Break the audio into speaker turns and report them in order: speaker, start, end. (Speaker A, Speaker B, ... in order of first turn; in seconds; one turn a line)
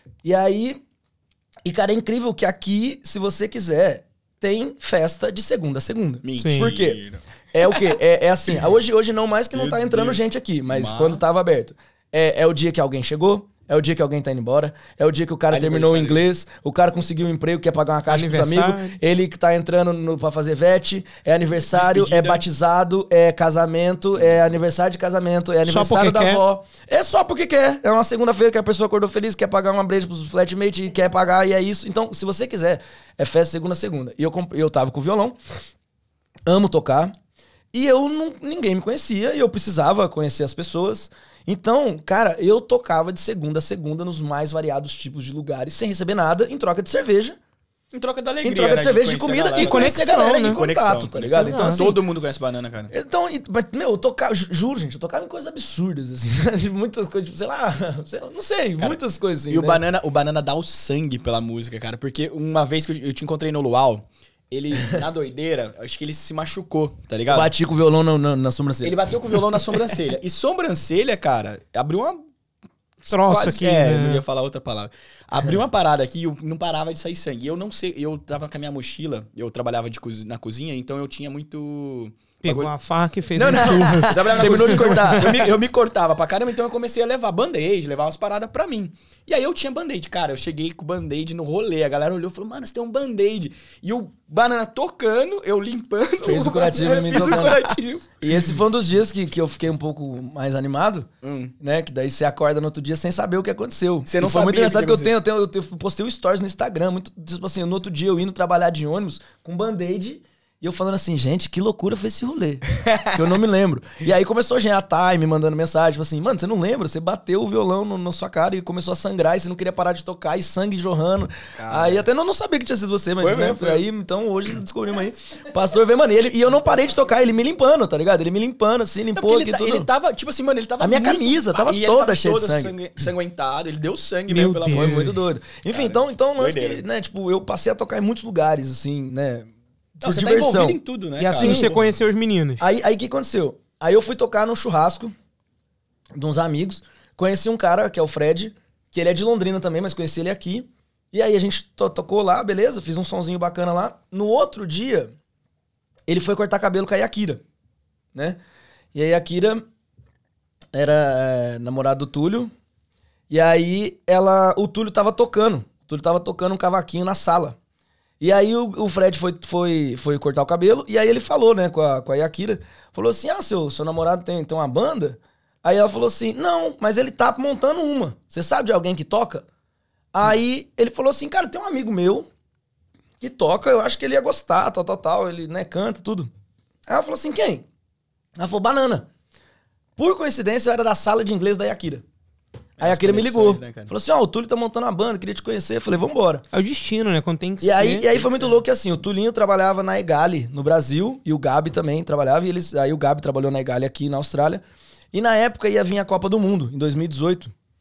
Speaker A: 0.2-0.8
Speaker A: 1.6-7.0
Speaker B: 6.2-7.9
Speaker C: 6.4-6.7
Speaker A: 7.5-35.4
Speaker B: 9.5-11.2
Speaker B: 15.5-16.3
Speaker C: 18.1-19.0
Speaker B: 21.7-22.4
Speaker C: 25.6-26.4
Speaker A: 36.5-37.1
Speaker A: 37.7-47.4
Speaker B: 47.9-52.9
Speaker A: 48.4-52.0
Speaker C: 49.6-50.6
Speaker C: 51.3-51.8
Speaker A: 52.9-59.8
Speaker B: 59.5-67.5
Speaker A: 67.3-69.2
Speaker B: 68.8-72.2
Speaker C: 73.1-74.2
Speaker B: 73.2-82.7
Speaker C: 82.4-85.2
Speaker A: 83.3-85.5
Speaker B: 84.0-98.6
Speaker A: 96.2-97.6
Speaker A: 98.2-101.1
Speaker B: 101.2-101.5
Speaker A: 101.6-129.9
Speaker B: 104.0-105.1
Speaker B: 112.7-113.2
Speaker B: 121.6-122.0
Speaker B: 123.2-123.8
Speaker B: 129.1-135.2
Speaker A: 130.8-132.7
Speaker C: 134.3-135.1
Speaker A: 134.7-140.8
Speaker B: 135.7-136.8
Speaker B: 140.0-141.8
Speaker C: 141.2-142.6
Speaker A: 141.3-141.8
Speaker A: 142.6-145.1
Speaker A: 146.1-155.1
Speaker A: 156.1-157.4
Speaker A: 158.9-159.6
Speaker A: 160.7-162.5
Speaker A: 163.3-167.6
Speaker A: 168.2-179.4
Speaker A: 180.1-182.3
Speaker A: 183.2-186.3
Speaker A: 186.9-187.6
Speaker A: 188.4-189.1
Speaker A: 190.0-192.0
Speaker B: 192.8-193.9
Speaker A: 192.8-196.4
Speaker C: 196.5-198.1
Speaker A: 197.6-204.6
Speaker B: 198.2-198.5
Speaker A: 205.1-207.5